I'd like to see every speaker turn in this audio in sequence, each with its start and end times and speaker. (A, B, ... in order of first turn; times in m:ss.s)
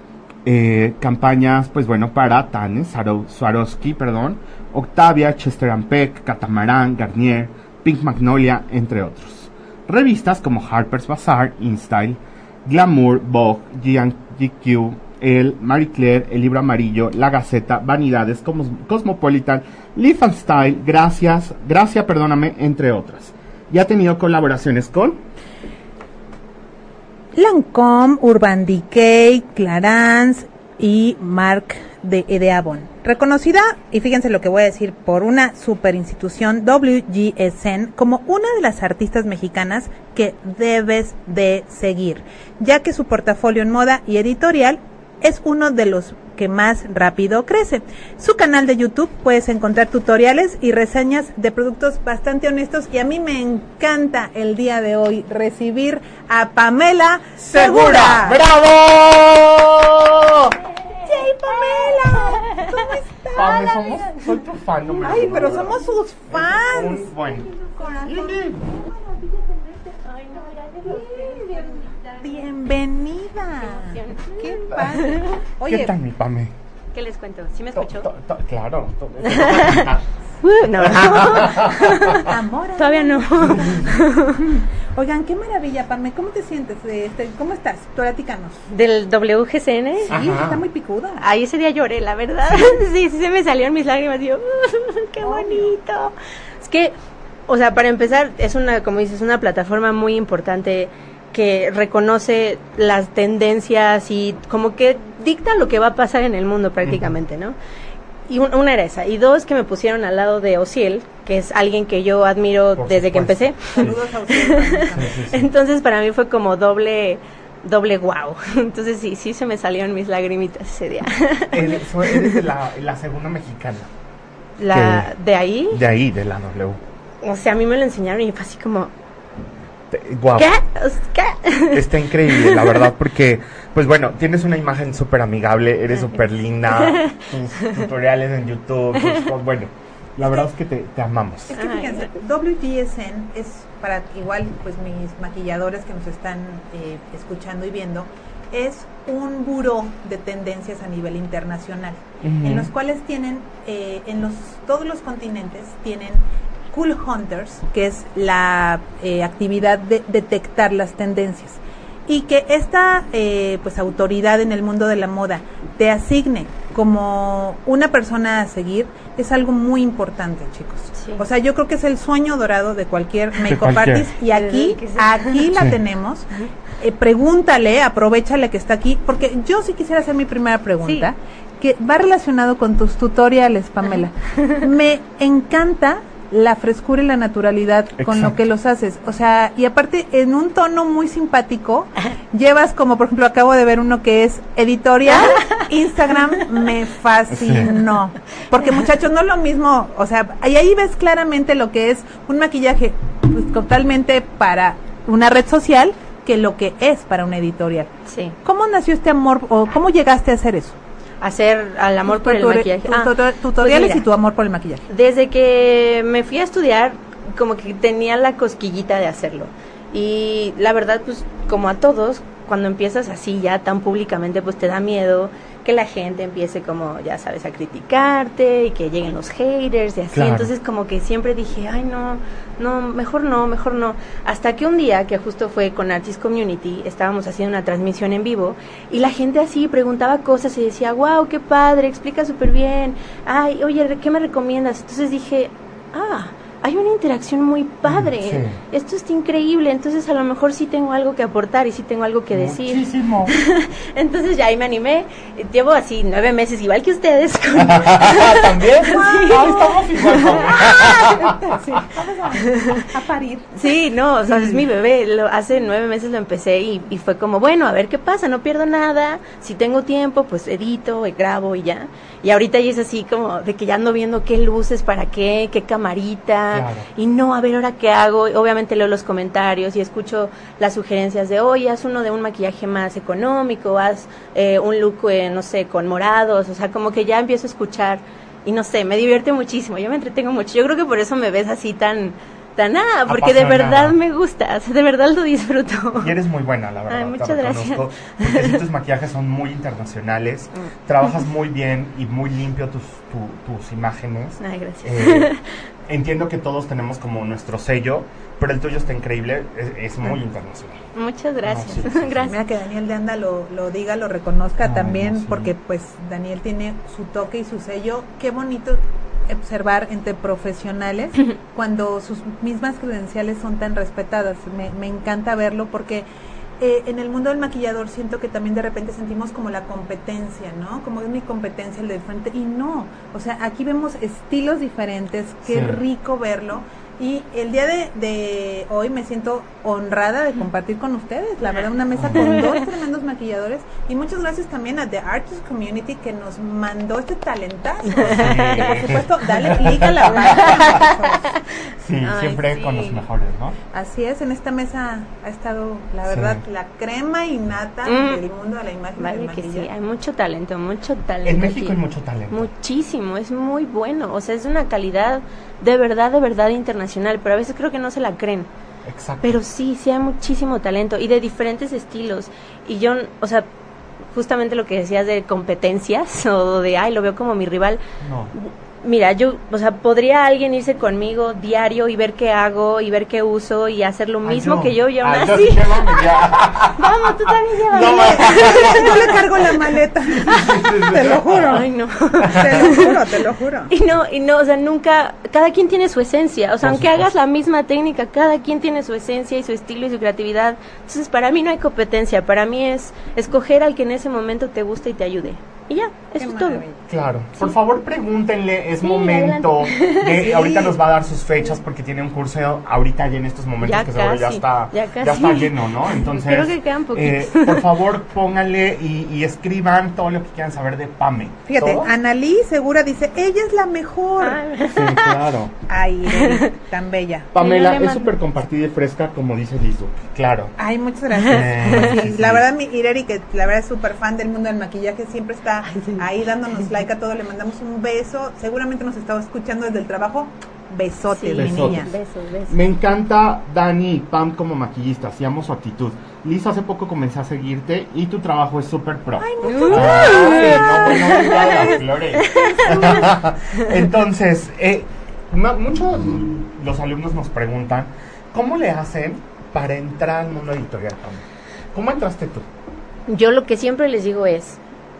0:00.4-0:25.2 A
0:27.3-0:58.4 B
0:57.4-1:00.6 A
1:00.9-1:04.2 B
1:01.6-1:02.1 C
1:03.3-1:08.6 A
1:05.0-1:09.8 B
1:09.8-1:12.5 C
1:10.8-1:15.9 B
1:13.6-1:15.4 C
1:15.6-1:16.5 A
1:16.9-1:18.1 C
1:17.7-1:20.0 A
1:19.2-1:19.9 C
1:20.4-1:24.4 C
1:20.8-1:22.2 A
1:22.2-1:28.6 B
1:23.4-1:23.9 A
1:28.7-1:30.2 C
1:30.1-1:31.2 B
1:30.1-1:30.6 A
1:31.2-1:36.9 C
1:35.2-1:35.7 B
1:37.5-1:47.5 C
1:46.8-1:47.1 A
1:48.3-2:02.4 C
1:52.8-1:54.0 A
1:53.7-1:55.2 B
1:54.9-1:55.5 A
2:01.5-2:03.9 A
2:04.6-2:05.8 C
2:04.7-2:05.1 A
2:05.7-2:06.8 A
2:07.2-2:08.9 C
2:09.9-2:10.5 A
2:10.3-2:12.9 C
2:11.7-2:21.6 A
2:15.9-2:16.2 C
2:16.7-2:17.8 C
2:21.5-3:27.9 B
2:21.5-2:22.1 C
2:32.2-2:32.7 A
2:51.0-2:51.2 C
2:53.4-2:54.1 A
2:54.2-2:55.5 C
2:55.5-2:55.8 A
3:00.8-3:01.1 C
3:08.0-3:08.4 A
3:15.4-3:15.6 C
3:17.3-3:17.8 A
3:28.0-3:28.4 C
3:28.4-3:30.8 B
3:31.2-3:34.0 C
3:32.1-3:34.8 B
3:34.9-4:20.9 C
3:50.1-3:50.5 A
4:07.9-4:08.6 A
4:12.3-4:13.3 A
4:17.6-4:21.4 A
4:18.9-4:23.7 B
4:22.5-4:22.8 C
4:23.5-4:56.1 C
4:36.5-4:36.9 A
4:53.1-4:54.0 A
4:56.0-5:05.3 A
4:56.9-4:58.6 C
5:04.4-5:05.4 C
5:05.8-5:10.8 A
5:10.9-5:12.4 C
5:11.4-5:12.4 A
5:12.3-5:26.1 B
5:14.6-5:15.5 A
5:26.6-5:51.4 B
5:35.4-5:35.8 A
5:41.9-5:42.4 A
5:42.1-5:42.7 C
5:47.9-5:48.9 C
5:48.0-5:50.8 A
5:50.1-5:53.0 C
5:51.8-5:53.6 A
5:53.7-5:59.7 B
5:56.0-5:56.4 A
5:57.8-5:58.2 C
5:59.0-6:01.8 C
6:01.2-6:02.5 A
6:02.3-6:08.5 C
6:08.8-6:09.4 A
6:09.2-6:13.5 C
6:14.1-6:17.8 C
6:18.0-6:18.3 A
6:18.3-6:29.4 C
6:24.2-6:29.2 A
6:27.7-6:31.7 B
6:30.1-6:31.6 A
6:31.3-6:33.0 C
6:32.2-6:32.7 A
6:32.2-6:33.7 B
6:33.7-6:46.6 C
6:36.6-6:37.1 A
6:46.2-6:46.8 B
6:46.9-7:01.9 A
6:48.8-6:50.8 C
6:53.6-6:57.6 C
7:01.5-7:04.4 B
7:04.2-7:05.2 C
7:04.7-7:05.5 A
7:05.7-7:07.3 B
7:06.1-7:06.4 C
7:07.3-7:10.6 A
7:07.4-7:08.1 C
7:10.6-7:21.9 B
7:11.1-7:12.0 C
7:11.3-7:12.4 A
7:15.6-7:16.1 C
7:21.1-7:22.6 C
7:21.3-7:21.9 A
7:22.5-7:42.5 A
7:29.2-7:31.3 B
7:29.4-7:33.7 C
7:43.1-7:44.6 C